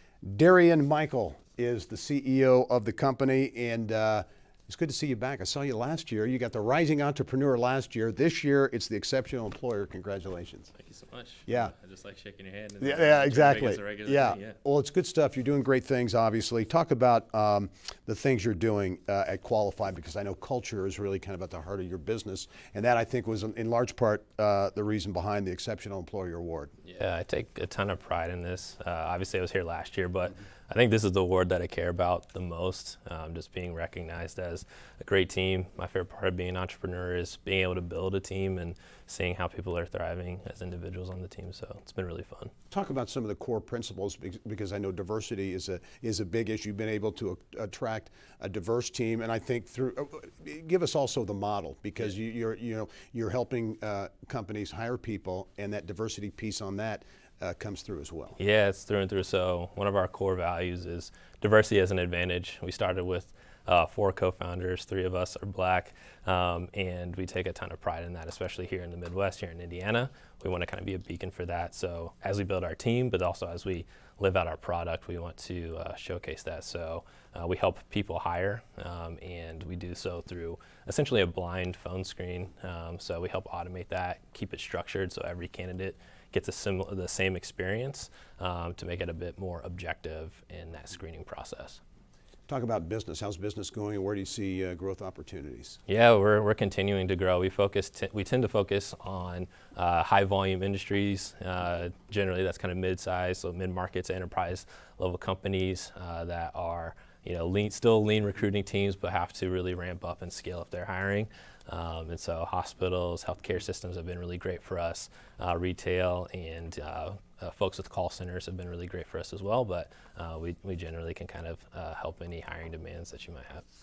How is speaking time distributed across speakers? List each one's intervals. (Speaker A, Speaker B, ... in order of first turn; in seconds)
Speaker A: 0.2-10.7, 11.5-11.7, 12.8-26.7, 42.7-58.4, 92.5-95.8
Speaker B: 10.8-14.6, 26.9-42.5, 58.4-91.8, 95.9-123.6